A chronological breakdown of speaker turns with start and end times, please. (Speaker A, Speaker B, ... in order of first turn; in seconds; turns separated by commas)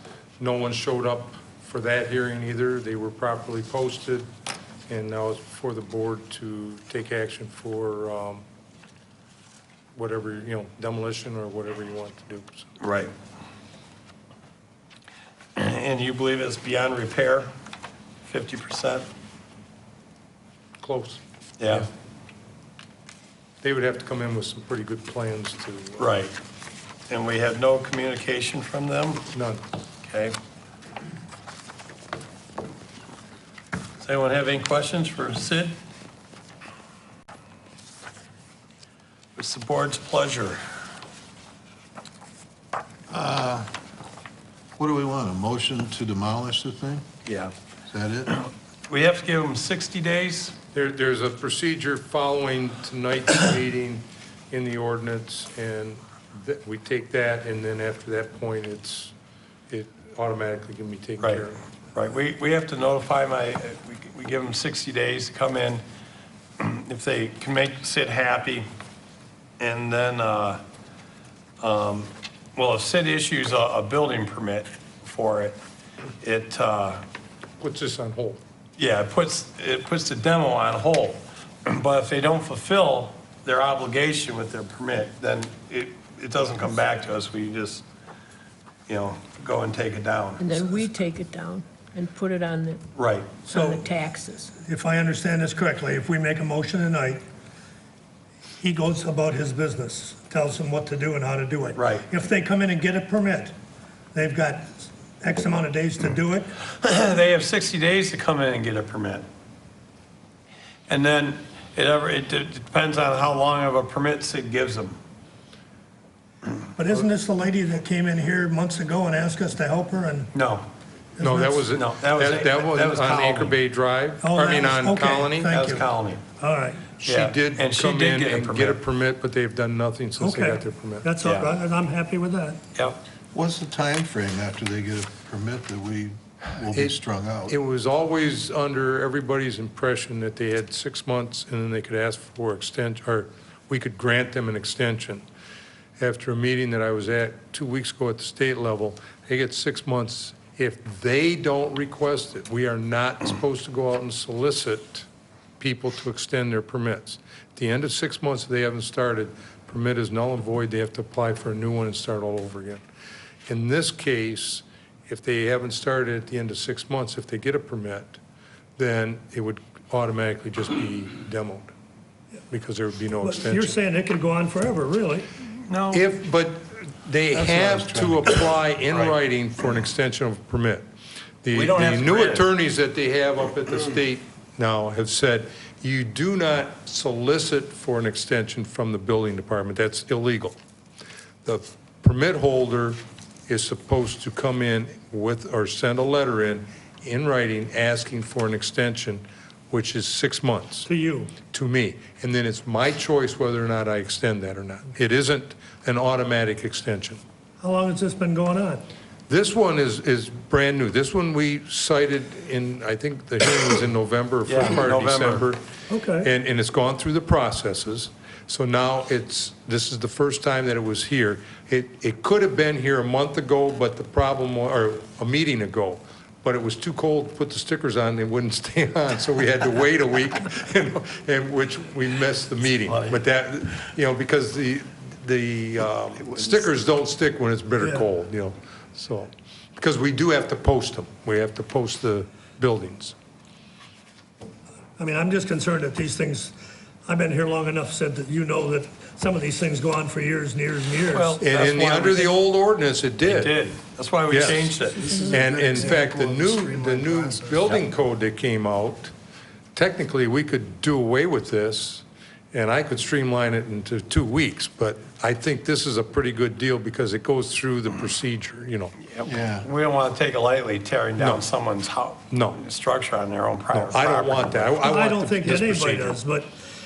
Speaker A: 0.4-4.3, Speaker A: 4.9-8.4, Speaker A: 9.9-12.7, Speaker B: 12.8-13.1, Speaker B: 15.6-17.5, Speaker B: 18.2-19.1, Speaker A: 20.8-21.2, Speaker B: 21.6-21.9, Speaker A: 23.6-26.1, Speaker B: 26.0-26.3, Speaker B: 27.1-29.3, Speaker A: 29.3-29.6, Speaker B: 30.0-30.4, Speaker B: 34.0-35.8, Speaker B: 39.4-40.6, Speaker C: 43.1-43.7, Speaker C: 44.8-47.1, Speaker B: 47.3-47.5, Speaker C: 47.9-48.4, Speaker B: 48.3-50.6, Speaker A: 50.7-59.1, Speaker A: 59.7-61.6, Speaker B: 61.2-65.8, Speaker B: 66.6-68.7, Speaker B: 69.6-70.6, Speaker B: 71.6-75.6, Speaker B: 76.2-77.0, Speaker A: 77.6-78.4, Speaker B: 78.8-87.8, Speaker B: 88.9-90.5, Speaker D: 90.4-92.8, Speaker B: 93.0-93.5, Speaker E: 93.5-93.9, Speaker D: 93.5-94.5, Speaker E: 94.6-97.2, Speaker E: 98.6-103.5, Speaker B: 101.8-102.1, Speaker E: 104.1-106.5, Speaker B: 106.7-109.3, Speaker B: 110.9-115.0, Speaker E: 116.8-120.3, Speaker B: 120.3-120.7, Speaker E: 121.2-121.7, Speaker A: 121.2-125.5, Speaker B: 121.7-123.6, Speaker E: 124.2-126.9, Speaker B: 125.5-126.2, Speaker A: 127.0-131.1, Speaker B: 127.0-128.8, Speaker E: 130.2-132.6, Speaker B: 131.2-131.5, Speaker C: 133.3-137.6, Speaker A: 137.5-145.2, Speaker A: 146.0-155.1, Speaker A: 155.6-162.8, Speaker A: 163.5-168.2, Speaker A: 168.8-171.7, Speaker A: 172.5-173.8, Speaker E: 173.2-175.3, Speaker B: 175.6-176.1, Speaker A: 175.9-180.9, Speaker C: 177.3-178.4, Speaker A: 181.4-190.6, Speaker B: 181.5-182.5, Speaker A: 191.4-200.9, Speaker E: 200.9-201.3, Speaker A: 201.4-207.2, Speaker E: 207.6-208.8, Speaker A: 209.3-215.6, Speaker B: 214.5-215.5, Speaker E: 215.9-216.3, Speaker A: 216.2-243.2, Speaker B: 232.9-233.2, Speaker E: 237.8-238.1, Speaker E: 245.0-246.6, Speaker E: 247.1-251.4, Speaker B: 251.1-252.4, Speaker A: 251.4-253.5, Speaker B: 253.2-255.2, Speaker A: 254.3-254.7, Speaker C: 255.0-257.7, Speaker A: 255.2-259.1, Speaker A: 259.8-268.9, Speaker B: 269.0-274.8, Speaker C: 269.2-269.7, Speaker A: 272.3-272.6, Speaker A: 273.7-276.2, Speaker E: 274.8-276.5